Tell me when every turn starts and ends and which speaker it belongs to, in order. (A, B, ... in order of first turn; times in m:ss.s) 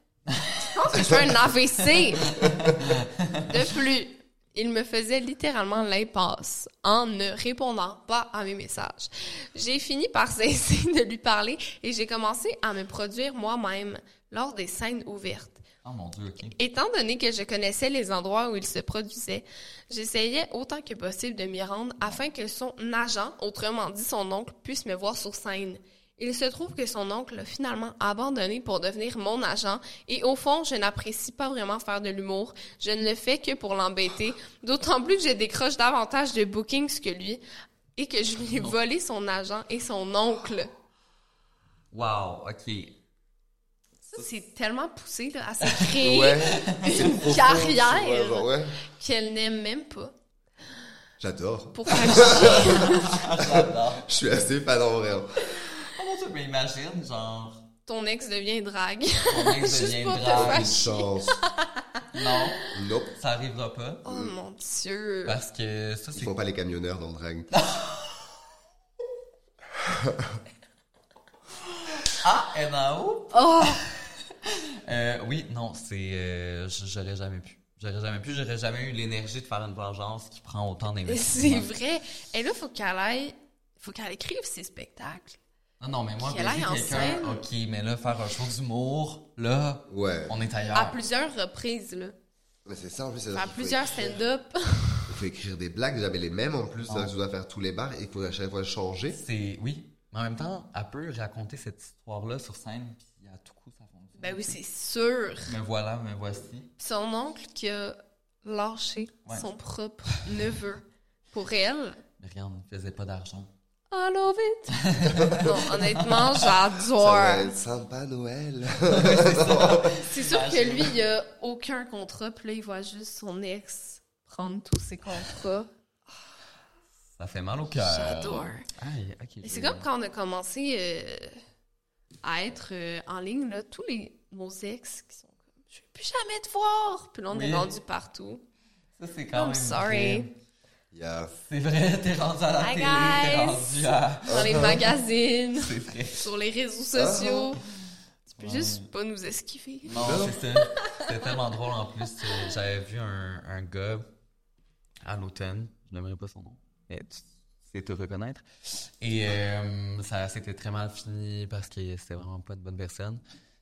0:00.3-0:01.1 A
0:00.7-0:02.4 B
0:02.3-0:03.4 A
0:03.4-0:15.6 B
0:15.8-0:16.6 A
0:16.6-0:37.4 B
0:38.0-0:40.7 B
0:41.9-0:43.0 A
0:44.1-0:50.1 B
0:45.7-0:47.2 A
0:46.0-0:48.8 C
0:51.2-0:55.5 C
0:51.8-0:53.0 B
0:52.2-0:54.1 A
0:55.7-0:57.7 A
0:57.9-1:01.8 B
0:59.3-1:00.8 A
1:00.3-1:01.4 C
1:02.1-1:02.6 A
1:02.7-1:03.1 C
1:03.2-1:04.0 A
1:04.0-1:05.4 B
1:04.1-1:04.3 C
1:05.2-1:06.4 A
1:06.1-1:07.5 C
1:07.5-1:08.2 A
1:09.8-1:10.4 C
1:12.1-1:13.8 A
1:13.3-1:13.8 B
1:14.5-1:21.7 A
1:21.1-1:25.4 B
1:25.8-1:31.0 A
1:26.2-1:27.4 B
1:29.9-1:30.3 C
1:30.7-1:32.2 B
1:32.6-1:34.2 C
1:33.3-1:35.2 B
1:35.1-1:39.2 C
1:39.1-1:44.6 A
1:44.2-1:45.5 B
1:45.5-1:46.7 A
1:46.8-1:52.0 B
1:52.2-1:53.5 A
1:53.9-1:54.8 B
1:54.8-1:56.5 A
1:55.4-1:57.5 B
1:57.0-1:59.9 C
1:58.9-2:01.0 A
2:00.0-2:05.7 B
2:07.2-2:09.9 A
2:07.8-2:08.7 B
2:09.4-2:11.4 B
2:12.2-2:18.4 B
2:17.3-2:17.8 A
2:19.0-2:20.3 A
2:19.3-2:20.3 B
2:20.9-2:21.3 C
2:21.4-2:24.9 A
2:22.6-2:27.6 B
2:24.3-2:24.8 C
2:25.6-2:26.2 A
2:26.9-2:27.5 C
2:28.4-2:28.9 A
2:28.4-2:30.0 B
2:29.9-2:34.1 A
2:30.0-2:30.4 C
2:30.8-2:31.0 B
2:35.0-2:38.4 A
2:39.0-2:43.2 A